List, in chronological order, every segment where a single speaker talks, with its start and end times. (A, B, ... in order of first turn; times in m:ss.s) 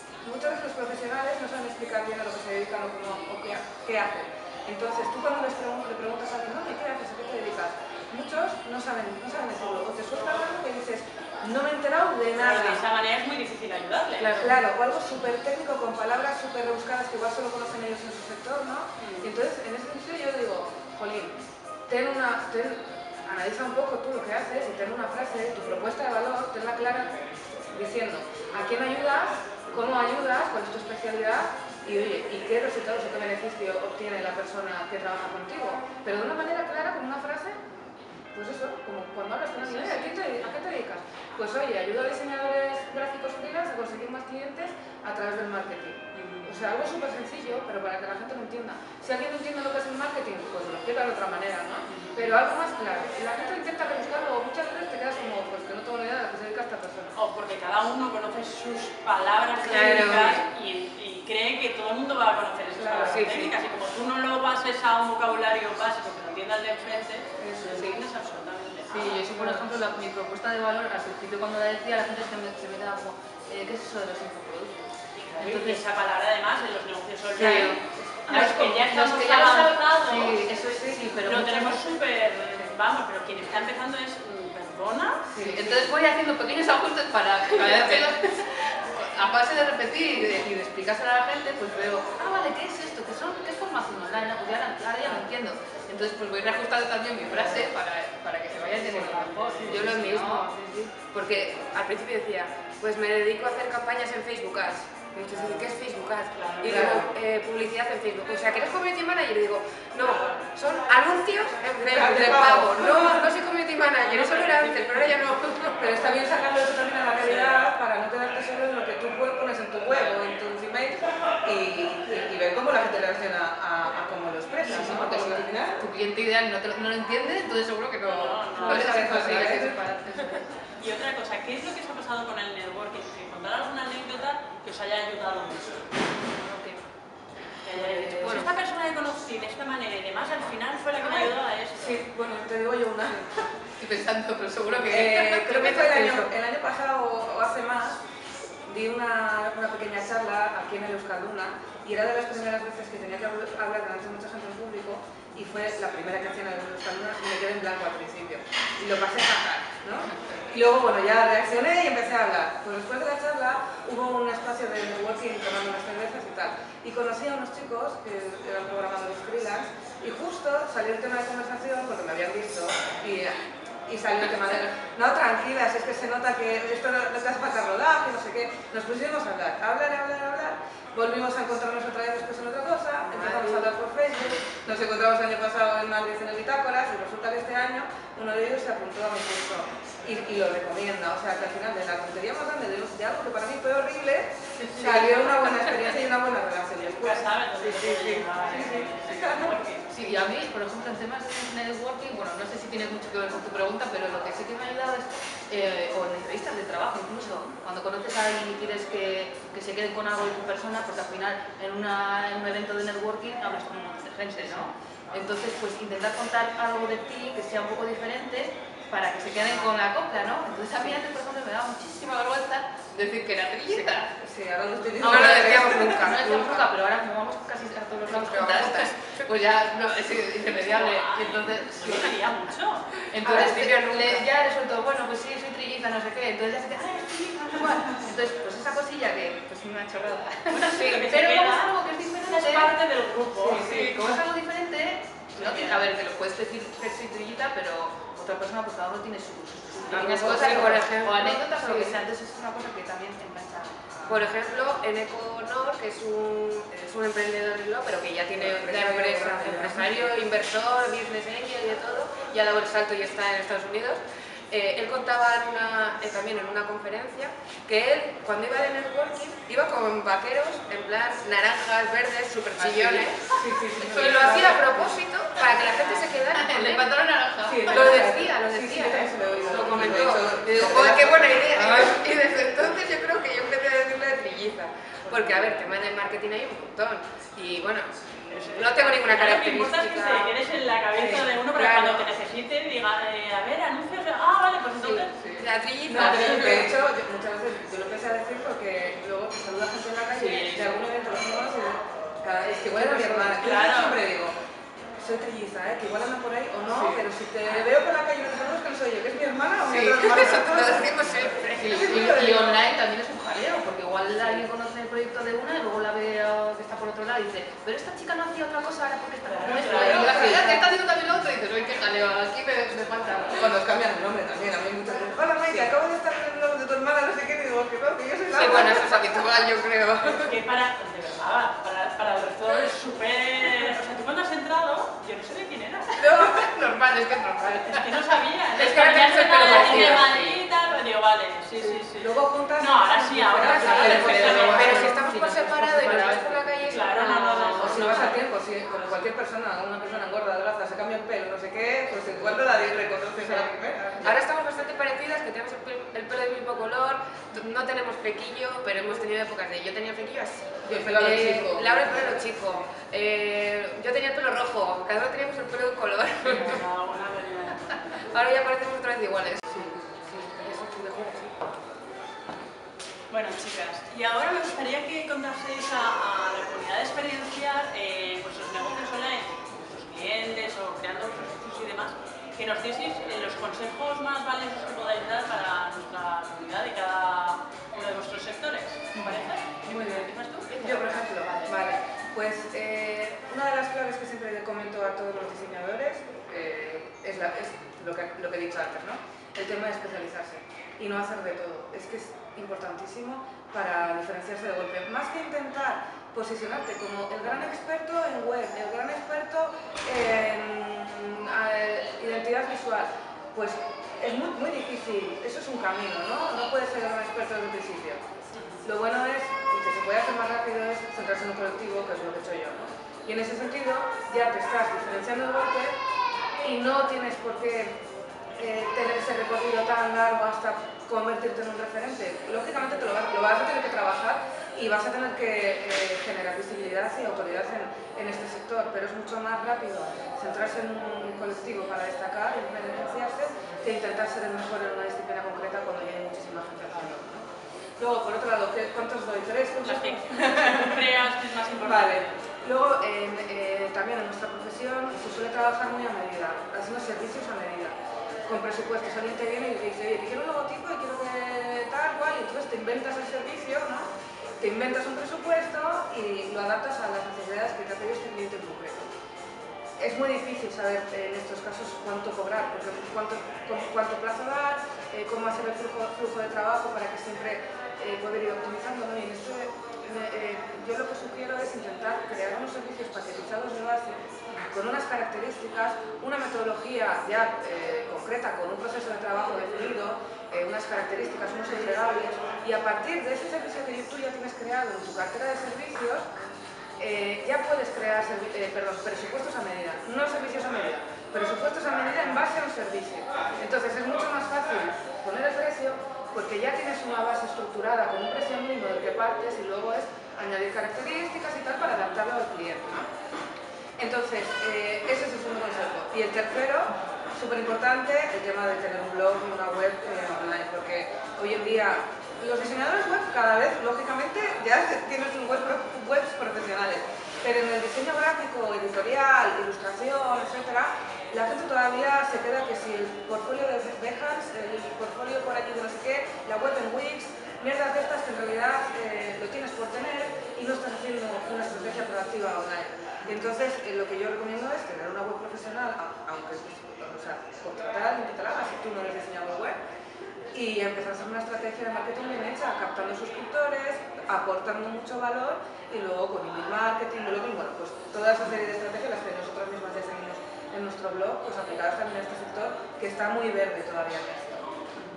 0:00.2-0:12.8 A
0:12.4-0:14.6 B
0:14.2-0:14.6 C
0:14.4-0:37.6 A
0:19.0-0:19.3 B
0:38.3-0:57.2 A
0:46.1-0:46.5 B
0:51.9-0:52.2 B
0:57.2-1:09.4 B
0:59.6-1:00.4 C
1:00.1-1:00.4 D
1:02.7-1:03.3 A
1:03.0-1:03.5 C
1:07.4-1:08.0 A
1:08.9-1:15.8 D
1:15.2-1:20.5 B
1:17.4-1:21.8 D
1:20.7-1:21.1 A
1:21.0-1:25.2 B
1:25.3-1:25.9 A
1:25.4-1:40.5 D
1:37.3-1:37.6 A
1:38.9-1:39.3 A
1:39.7-1:55.9 C
1:45.1-1:45.5 A
1:46.4-1:47.0 B
1:46.6-1:47.1 A
1:50.0-1:50.5 B
1:51.8-1:53.3 A
1:54.0-1:55.3 B
1:55.8-2:05.8 A
1:57.2-1:57.7 B
2:04.6-2:10.4 D
2:08.0-2:09.3 B
2:08.5-2:09.8 A
2:10.8-2:15.9 B
2:16.4-2:16.8 D
2:17.6-2:22.0 B
2:17.7-2:18.5 D
2:18.2-2:18.5 C
2:21.0-2:23.4 A
2:23.8-2:25.8 D
2:24.9-2:28.0 A
2:25.5-2:26.3 C
2:28.7-3:19.6 A
3:03.2-3:03.7 C
3:16.9-3:20.1 B
3:19.9-3:44.1 D
3:44.2-3:46.2 A
3:45.0-3:46.6 C
3:45.0-3:52.2 D
3:48.0-3:49.3 C
3:50.4-3:53.0 B
3:53.1-4:02.7 D
3:53.2-3:54.2 C
4:00.5-4:03.7 B
4:03.4-4:14.2 D
4:03.4-4:04.2 A
4:05.4-4:05.8 B
4:09.9-4:10.9 A
4:09.9-4:12.0 C
4:14.0-4:33.4 C
4:18.3-4:20.1 A
4:32.6-4:34.6 D
4:32.9-4:35.0 A
4:33.9-4:36.9 C
4:36.3-4:38.2 D
4:37.4-4:41.4 A
4:37.6-4:50.3 C
4:39.5-4:42.0 D
4:45.1-4:45.6 B
4:48.3-4:55.2 B
4:51.0-4:52.1 C
4:54.8-4:56.7 C
4:55.2-4:55.4 D
4:55.9-5:04.4 A
5:00.2-5:00.8 B
5:00.2-5:00.6 D
5:02.4-5:03.4 D
5:03.4-5:04.0 B
5:05.0-5:12.6 A
5:06.7-5:07.0 D
5:09.7-5:23.5 D
5:09.8-5:12.2 C
5:19.3-5:20.4 B
5:19.5-5:20.6 A
5:23.4-5:29.0 A
5:28.3-5:30.3 C
5:30.1-5:36.1 B
5:36.0-5:37.8 C
5:37.6-5:45.0 B
5:38.5-5:40.4 C
5:38.6-5:40.1 D
5:39.6-5:40.1 A
5:41.6-5:44.8 A
5:43.4-5:48.2 C
5:43.4-5:46.8 D
5:46.7-5:48.2 B
5:47.5-5:54.2 A
5:54.0-6:06.6 C
6:00.6-6:02.2 A
6:06.2-6:07.8 B
6:07.9-6:11.3 C
6:13.1-6:31.0 B
6:29.7-6:30.0 A
6:30.5-6:31.5 C
6:30.6-6:58.0 A
6:58.4-6:58.6 B
6:58.6-7:05.8 A
7:06.4-7:07.8 A
7:08.4-7:27.3 A
7:27.8-7:31.0 A
7:29.6-7:32.2 B
7:31.6-7:37.7 A
7:38.2-7:48.9 A
7:49.8-8:16.2 A
8:16.8-8:32.9 A
8:33.8-9:09.6 A
9:10.3-9:24.5 A